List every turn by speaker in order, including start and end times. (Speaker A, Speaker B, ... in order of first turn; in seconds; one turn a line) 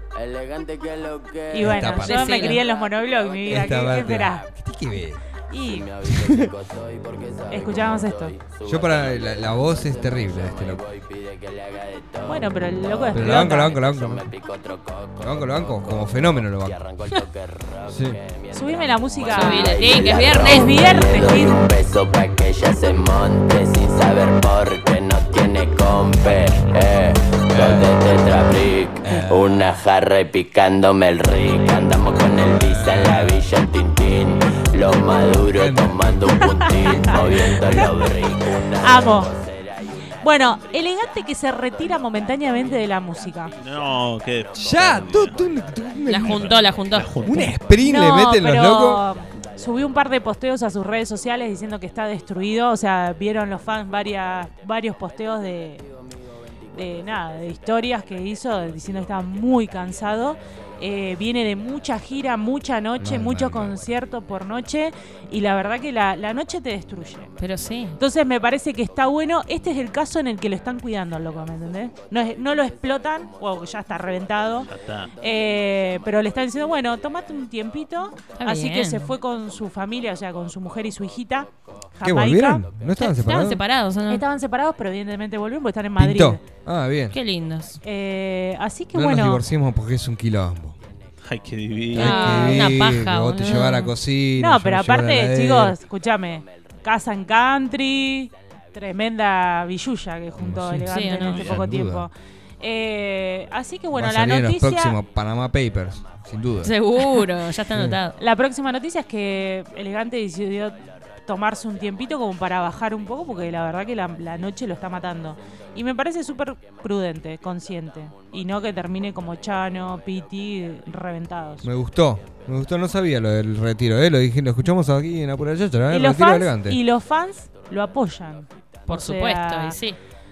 Speaker A: 0.1-4.4
Speaker B: 1.5-4.5
Speaker C: 1.6-2.2
Speaker D: 2.0-2.6
Speaker C: 3.5-5.2
Speaker B: 5.5-5.9
Speaker A: 5.6-39.9
Speaker C: 6.0-6.5
Speaker B: 7.5-8.3
Speaker C: 8.6-10.8
Speaker B: 12.2-13.8
Speaker C: 13.1-14.3
Speaker C: 15.2-16.8
Speaker C: 17.9-18.2
Speaker B: 18.5-21.6
Speaker D: 19.2-20.8
Speaker C: 27.5-27.9
Speaker C: 29.0-29.7
Speaker C: 32.6-33.4
Speaker C: 35.5-37.9
Speaker B: 36.4-37.3
Speaker B: 38.8-39.3
Speaker B: 40.2-43.5
Speaker E: 43.6-45.4
Speaker C: 44.5-46.6
Speaker D: 46.0-47.2
Speaker E: 46.2-47.6
Speaker C: 47.2-49.0
Speaker B: 47.8-55.8
Speaker B: 56.7-67.3
Speaker C: 63.0-63.8
Speaker D: 67.4-68.0
Speaker B: 68.0-82.7
Speaker E: 74.7-75.1
Speaker D: 78.4-79.1
Speaker C: 82.0-83.6
Speaker D: 83.0-84.2
Speaker B: 84.1-86.4
Speaker C: 86.0-87.2
Speaker D: 87.1-87.8
Speaker B: 87.8-89.4
Speaker C: 88.9-90.8
Speaker E: 91.2-92.2
Speaker D: 91.9-93.9
Speaker C: 91.9-95.8
Speaker B: 92.0-92.5
Speaker B: 94.4-105.0
Speaker C: 100.4-102.1
Speaker D: 100.9-101.5
Speaker C: 103.9-106.7
Speaker D: 106.6-108.2
Speaker C: 107.7-108.0
Speaker B: 108.2-121.7
Speaker C: 121.6-126.8
Speaker B: 125.9-129.8
Speaker D: 128.9-130.0